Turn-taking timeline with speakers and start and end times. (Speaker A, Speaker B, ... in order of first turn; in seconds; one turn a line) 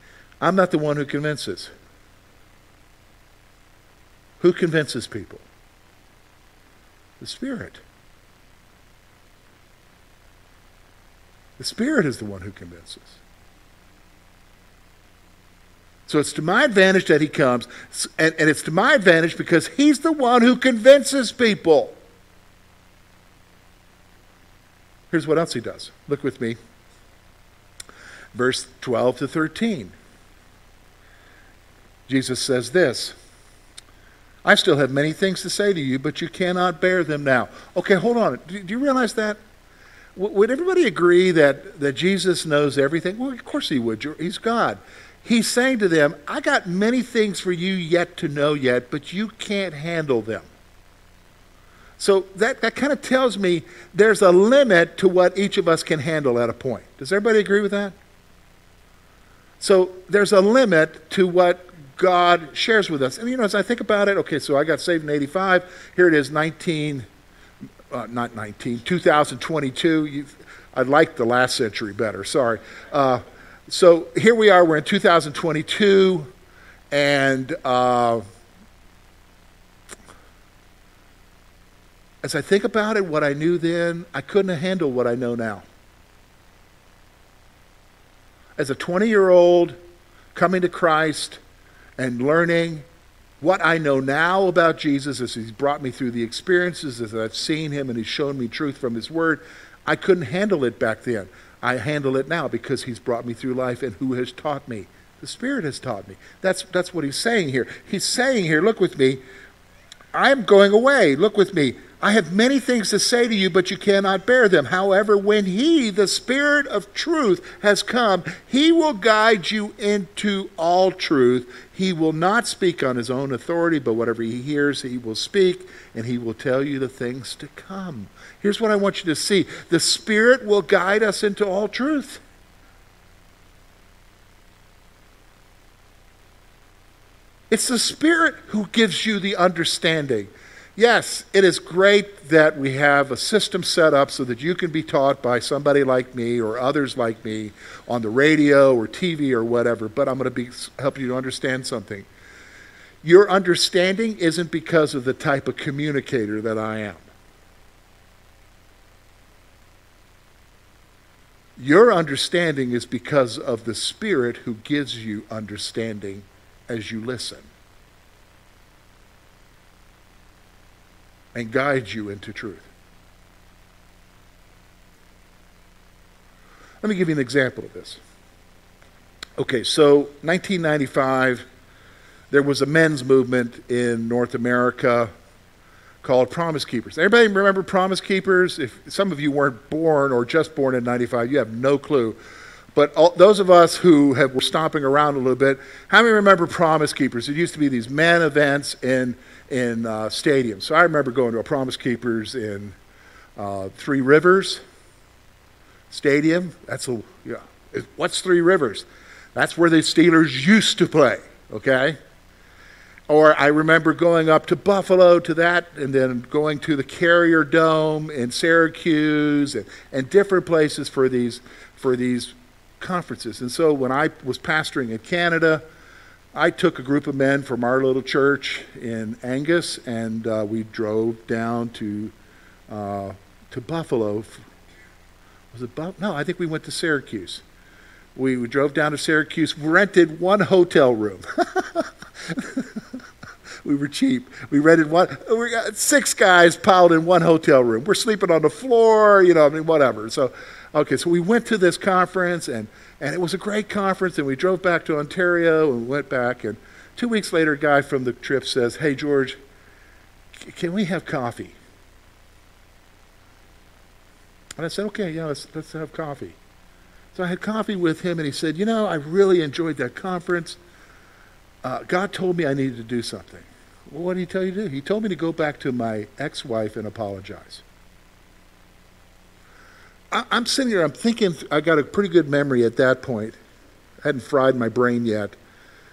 Speaker A: 0.4-1.7
Speaker A: 4.4-5.4
Speaker A: 7.2-7.8
Speaker A: 11.6-13.2
Speaker A: 16.1-22.0
Speaker A: 25.1-26.6
Speaker A: 28.3-29.9
Speaker A: 32.1-33.1
Speaker A: 34.4-39.4
Speaker A: 40.1-50.5
Speaker A: 52.0-57.9
Speaker A: 59.6-67.0
Speaker A: 67.9-76.3
Speaker A: 76.9-78.2
Speaker A: 82.2-85.6
Speaker A: 88.5-89.8
Speaker A: 90.3-91.4
Speaker A: 92.0-92.8
Speaker A: 93.4-109.2
Speaker A: 110.1-132.2
Speaker A: 137.5-152.1
Speaker A: 153.0-157.0
Speaker A: 161.6-167.5
Speaker A: 171.3-172.7
Speaker A: 176.8-178.0
Speaker A: 179.4-181.4
Speaker A: 182.3-185.1
Speaker A: 186.0-192.2
Speaker A: 192.7-202.8
Speaker A: 203.4-204.6
Speaker A: 205.9-212.0
Speaker A: 213.1-225.6
Speaker A: 226.3-232.1
Speaker A: 232.7-234.4
Speaker A: 235.5-237.4
Speaker A: 238.1-242.8
Speaker A: 243.6-259.4
Speaker A: 260.4-261.6
Speaker A: 264.6-266.4
Speaker A: 267.1-270.6
Speaker A: 271.6-277.6
Speaker A: 280.1-283.4
Speaker A: 284.0-285.4